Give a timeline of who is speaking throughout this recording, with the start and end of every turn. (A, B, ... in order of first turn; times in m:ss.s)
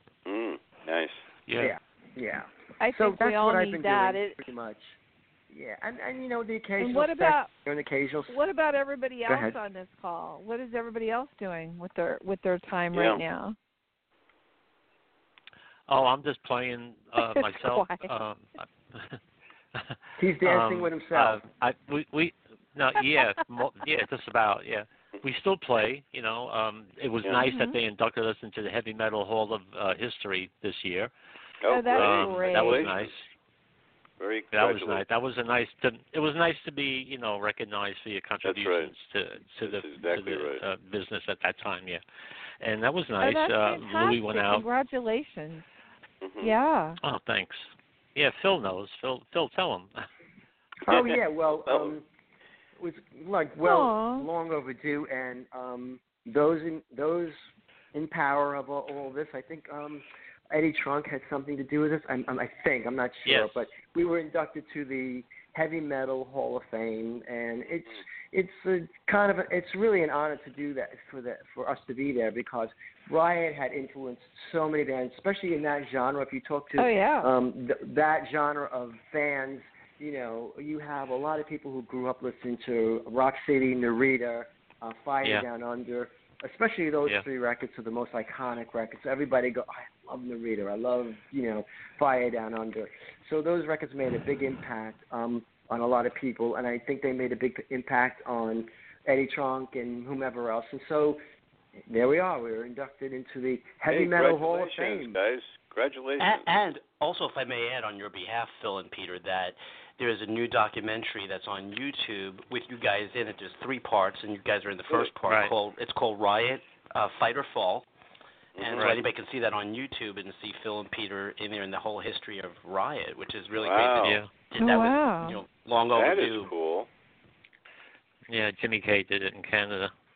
0:00.3-0:01.2 A
0:01.5-0:01.7 B
0:01.6-0:05.0 C
0:02.8-0:04.4 D
0:05.5-0:08.4 C
0:06.8-0:07.5 D
0:08.3-0:13.6 D
0:09.3-0:09.6 C
0:12.9-0:13.2 A
0:15.9-0:19.2 B
0:17.2-0:18.1 D
0:19.8-0:31.1 B
0:20.2-0:21.4 C
0:23.0-0:23.4 D
0:27.5-0:27.8 D
0:31.6-0:33.1 A
0:31.7-0:32.9 D
0:31.9-0:33.2 B
0:34.2-0:35.0 A
0:34.5-0:42.0 B
0:38.4-0:38.9 A
0:39.6-0:40.6 A
0:42.6-0:44.6 B
0:43.2-0:45.7 D
0:46.2-0:46.5 A
0:46.4-0:47.0 D
0:47.0-0:50.0 B
0:50.8-0:52.0 C
0:50.9-0:52.0 A
0:52.8-0:57.4 C
0:53.6-0:54.3 D
0:57.9-1:41.2 C
1:03.3-1:03.7 B
1:16.8-1:17.3 D
1:41.9-1:45.2 C
1:43.9-1:46.4 A
1:46.2-1:57.9 E
1:55.3-1:55.5 B
1:58.6-1:59.0 A
1:58.6-2:06.5 E
2:03.6-2:04.2 A
2:04.0-2:04.4 B
2:04.6-2:05.4 D
2:06.0-2:06.9 A
2:08.3-2:09.9 B